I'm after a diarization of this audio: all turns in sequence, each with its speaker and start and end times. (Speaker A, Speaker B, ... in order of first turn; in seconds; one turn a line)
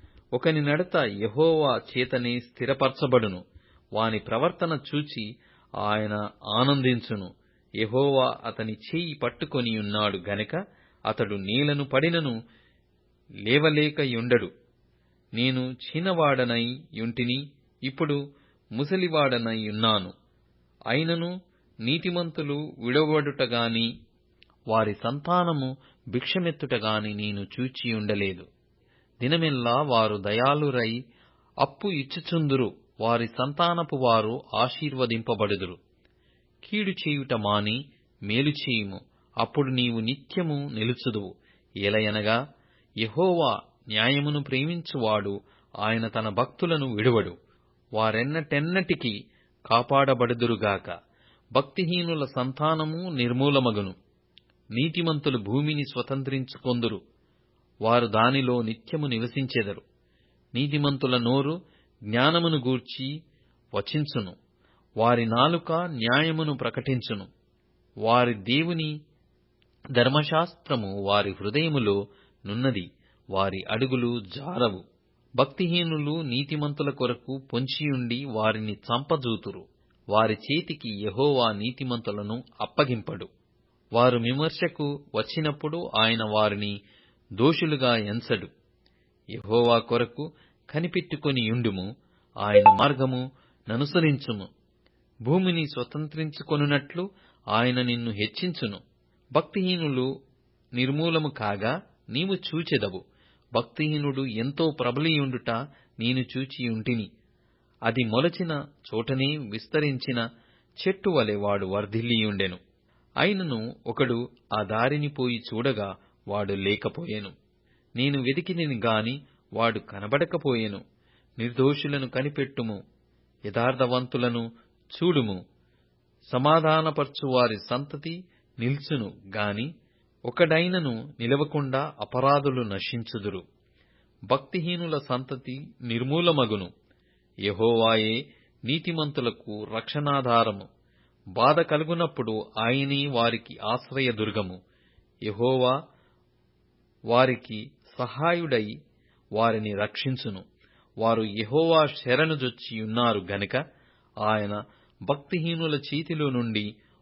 Speaker A: 0.3-3.4
Speaker A: 3.9-5.2
Speaker A: 5.8-7.3
Speaker A: 7.8-10.6
Speaker A: 11.1-12.3
Speaker A: 13.5-14.5
Speaker A: 15.3-18.2
Speaker A: 18.8-20.1
Speaker A: 20.9-21.3
Speaker A: 21.8-23.9
Speaker A: 24.7-28.4
Speaker A: 29.2-30.9
Speaker A: 31.6-35.8
Speaker A: 36.6-41.3
Speaker A: 41.8-42.4
Speaker A: 43.0-47.3
Speaker A: 47.9-49.1
Speaker A: 49.7-50.9
Speaker A: 51.5-53.9
Speaker A: 54.7-57.0
Speaker A: 57.9-59.8
Speaker A: 60.5-61.5
Speaker A: 62.1-63.1
Speaker A: 63.7-64.3
Speaker A: 65.0-67.3
Speaker A: 68.0-68.9
Speaker A: 70.0-74.8
Speaker A: 75.4-83.3
Speaker A: 84.0-86.7
Speaker A: 87.4-88.5
Speaker A: 89.4-91.9
Speaker A: 92.4-94.5
Speaker A: 95.2-98.8
Speaker A: 99.3-100.1
Speaker A: 100.7-103.0
Speaker A: 103.5-107.1
Speaker A: 107.9-110.2
Speaker A: 110.8-112.6
Speaker A: 113.2-117.3
Speaker A: 118.0-120.8
Speaker A: 121.4-122.8
Speaker A: 123.5-125.4
Speaker A: 126.3-129.7
Speaker A: 130.3-133.4
Speaker A: 134.3-136.7
Speaker A: 137.5-140.7
Speaker A: 141.3-144.6
Speaker A: 145.3-145.7
Speaker A: 147.1-148.7
Speaker A: 149.4-150.4
Speaker A: 151.0-153.6
Speaker A: 154.2-156.7